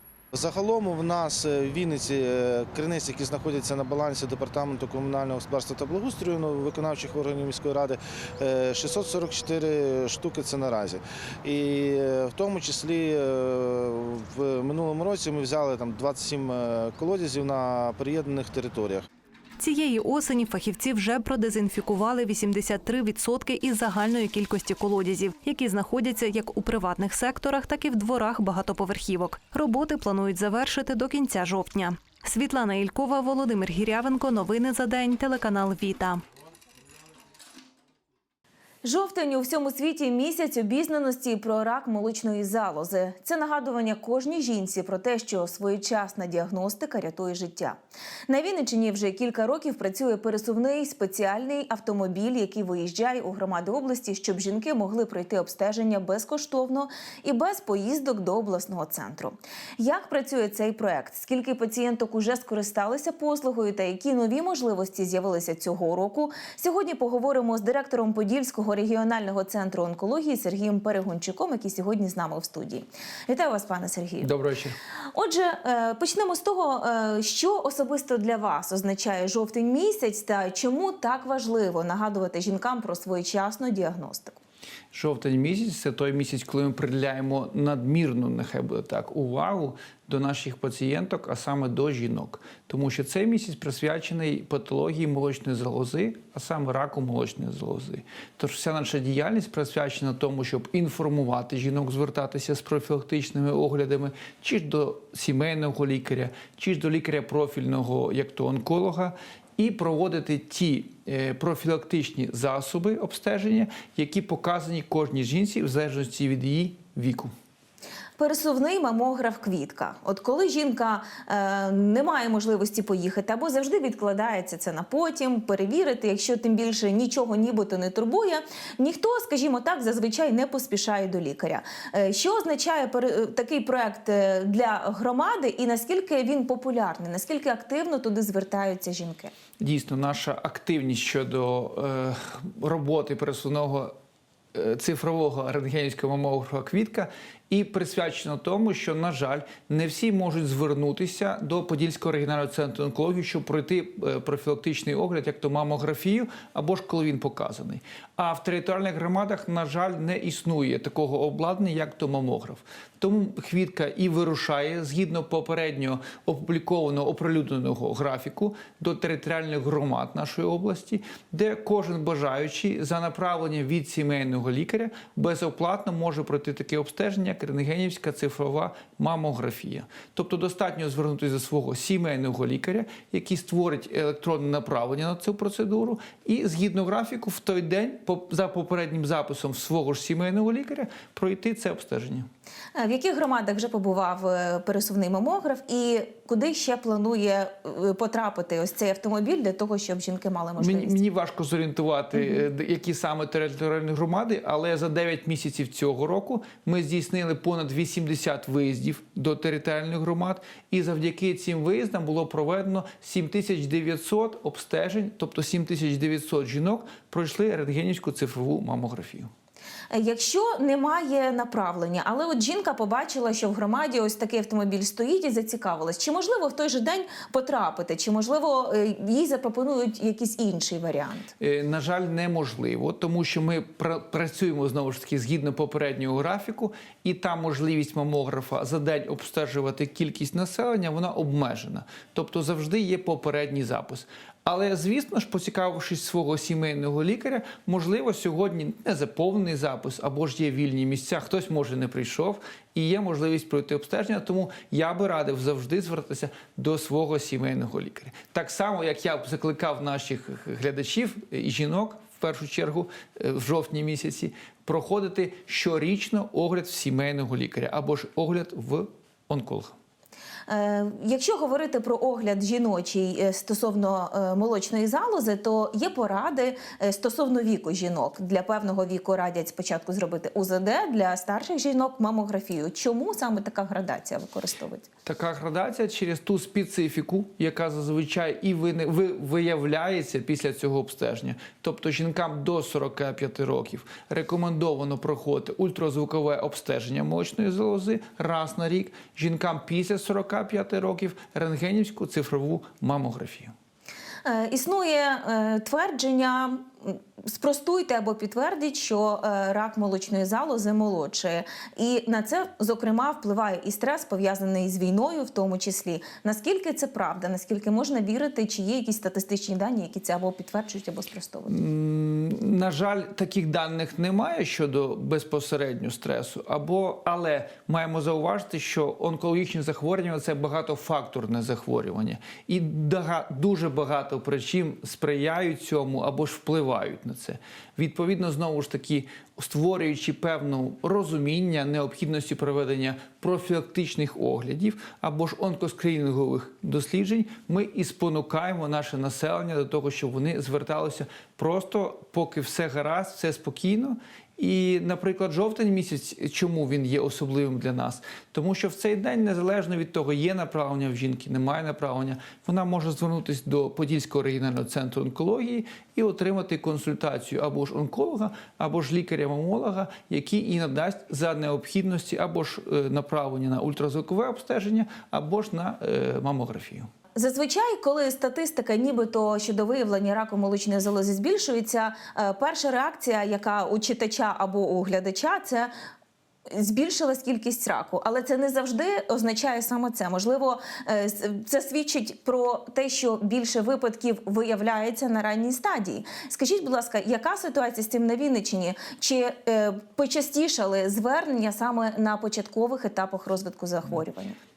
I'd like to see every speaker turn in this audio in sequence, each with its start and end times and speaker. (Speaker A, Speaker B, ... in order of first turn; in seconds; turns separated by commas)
Speaker A: 0.3-19.0, Speaker B: 19.6-36.2, Speaker C: 38.8-47.8, Speaker C: 48.3-74.3, Speaker D: 74.2-74.8, Speaker C: 75.1-84.4, Speaker D: 84.9-117.3, Speaker C: 118.2-139.3, Speaker D: 139.6-143.9, Speaker D: 144.5-192.3, Speaker C: 192.7-201.0, Speaker D: 200.6-219.3, Speaker C: 219.9-231.3, Speaker D: 231.4-269.7, Speaker C: 270.5-284.9, Speaker D: 285.0-303.5, Speaker C: 304.2-321.5, Speaker D: 321.5-376.9, Speaker C: 377.1-385.7, Speaker C: 386.5-404.4